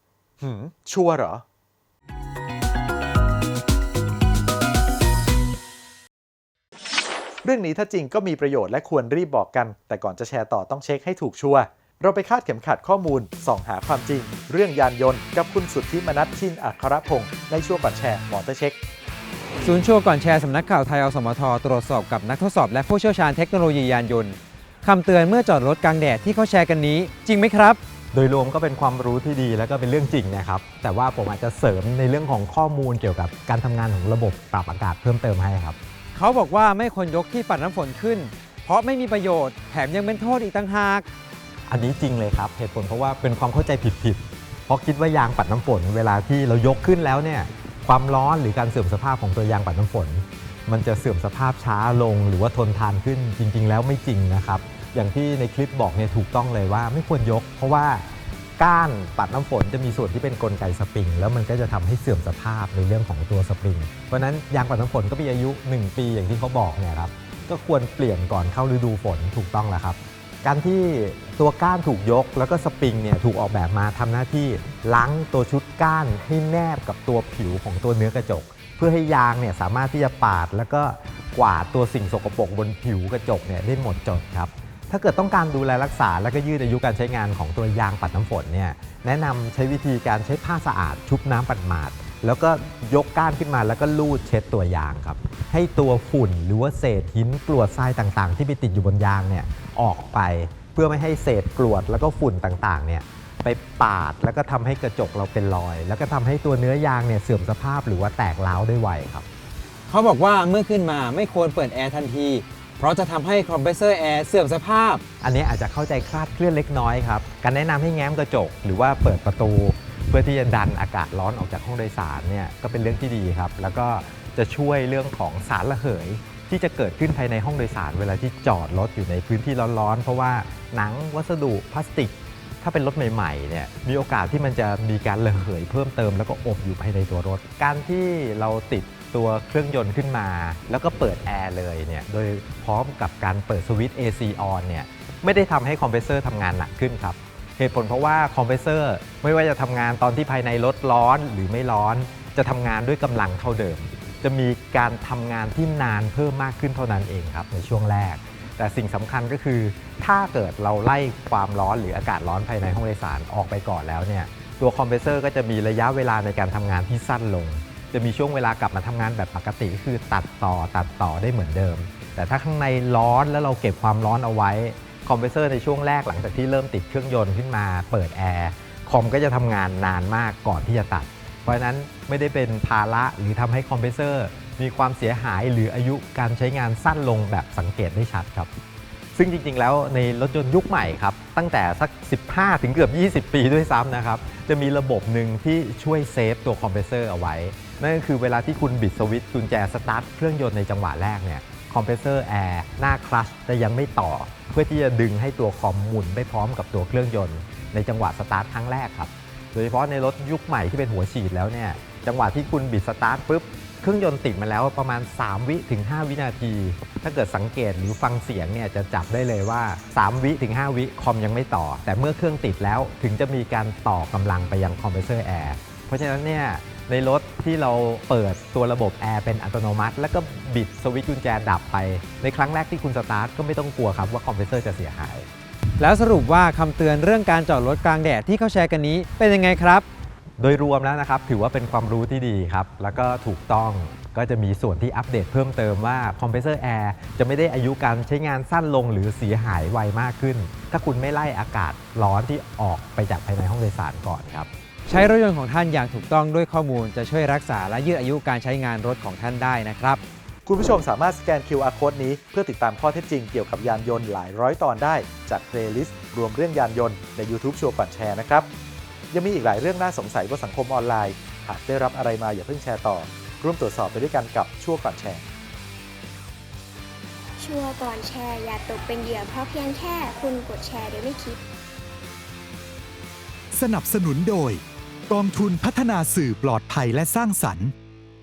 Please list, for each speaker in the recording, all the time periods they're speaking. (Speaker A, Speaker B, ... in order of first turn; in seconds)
Speaker A: 0.4-1.4, 7.4-18.8, 260.4-268.5, 269.1-275.3
Speaker B: 19.6-27.8, 36.1-41.1, 109.9-115.0, 235.8-239.9, 254.9-260.0
Speaker C: 28.1-35.8, 41.7-58.1, 58.6-109.3, 115.2-188.5, 189.2-235.3, 240.4-254.5
Speaker D: 277.4-281.4
Speaker E: 283.5-287.8